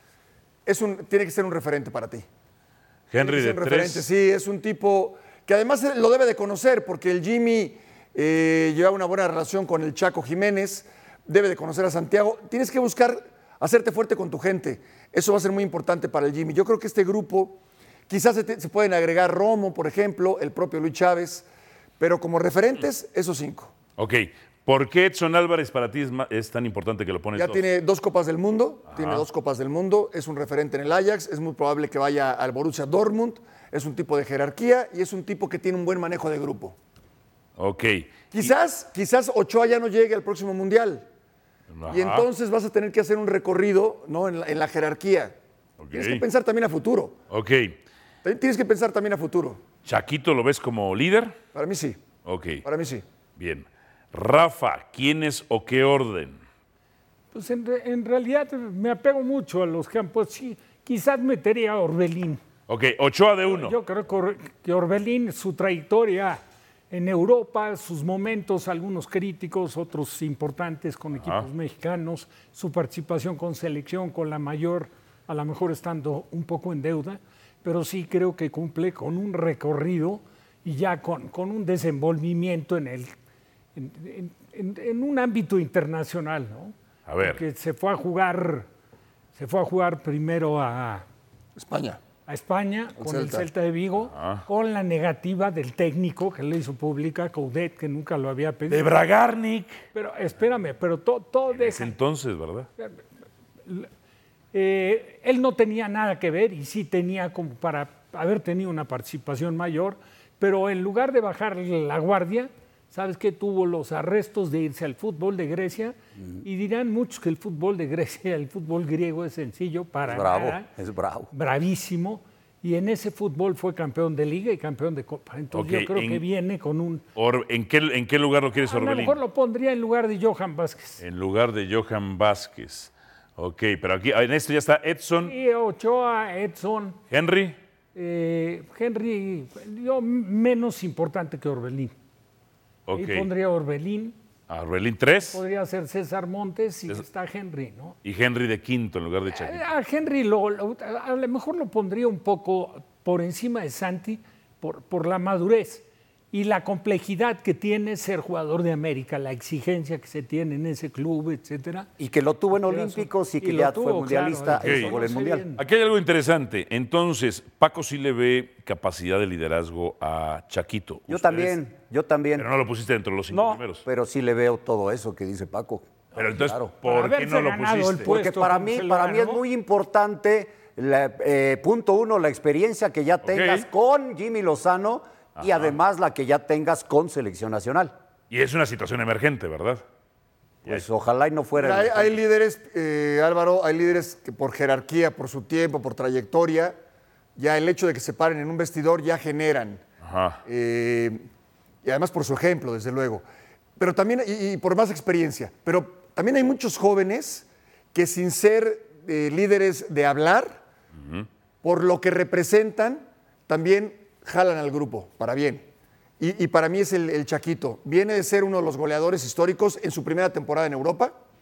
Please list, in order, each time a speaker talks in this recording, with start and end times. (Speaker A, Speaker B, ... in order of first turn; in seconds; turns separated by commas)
Speaker A: 0.7-2.2, Speaker B: 3.1-4.1, Speaker A: 3.2-21.4, Speaker A: 22.0-23.7, Speaker B: 24.0-27.6, Speaker A: 27.4-36.8, Speaker B: 28.9-29.2, Speaker B: 37.6-38.5, Speaker A: 38.3-41.1, Speaker B: 41.7-42.3, Speaker A: 41.9-45.3, Speaker B: 45.8-46.2, Speaker A: 45.9-47.1, Speaker B: 47.3-47.8, Speaker A: 48.2-49.6, Speaker B: 49.8-51.4, Speaker A: 51.5-52.0, Speaker B: 52.2-52.6, Speaker A: 52.6-53.0, Speaker B: 53.4-56.4, Speaker C: 57.3-62.4, Speaker B: 62.7-63.8, Speaker C: 63.5-66.4, Speaker C: 66.9-83.1, Speaker B: 71.2-71.5, Speaker C: 83.7-88.7, Speaker B: 87.0-87.4, Speaker C: 89.3-91.0, Speaker A: 91.5-92.0, Speaker C: 92.3-98.9, Speaker A: 93.0-93.5, Speaker B: 94.1-94.4, Speaker B: 98.7-99.8, Speaker C: 99.9-102.0, Speaker B: 101.5-102.7, Speaker C: 104.5-120.7, Speaker D: 120.0-121.3, Speaker C: 121.3-127.0, Speaker B: 125.5-126.2, Speaker B: 127.2-129.2, Speaker C: 128.6-131.0, Speaker B: 131.0-135.3, Speaker C: 135.2-137.0, Speaker B: 137.1-137.6, Speaker C: 137.9-141.9, Speaker B: 142.9-143.3, Speaker C: 142.9-144.2, Speaker B: 144.5-145.4, Speaker C: 145.3-147.9, Speaker B: 148.0-149.6, Speaker C: 149.3-161.9, Speaker D: 162.0-165.4, Speaker C: 162.5-165.6, Speaker B: 164.5-164.9, Speaker B: 165.6-171.6, Speaker D: 171.1-172.5, Speaker B: 172.4-173.8, Speaker D: 173.3-176.7, Speaker B: 176.1-178.1, Speaker C: 176.8-179.4, Speaker D: 178.0-187.9, Speaker B: 183.2-183.7, Speaker B: 185.4-185.8, Speaker B: 188.3-189.8, Speaker D: 190.6-192.2, Speaker A: 191.6-196.8, Speaker A: 197.4-199.8, Speaker B: 200.0-200.4, Speaker A: 200.4-201.2, Speaker A: 201.8-203.2, Speaker A: 203.8-210.6, Speaker B: 211.0-211.3, Speaker A: 211.6-215.7, Speaker A: 216.2-221.1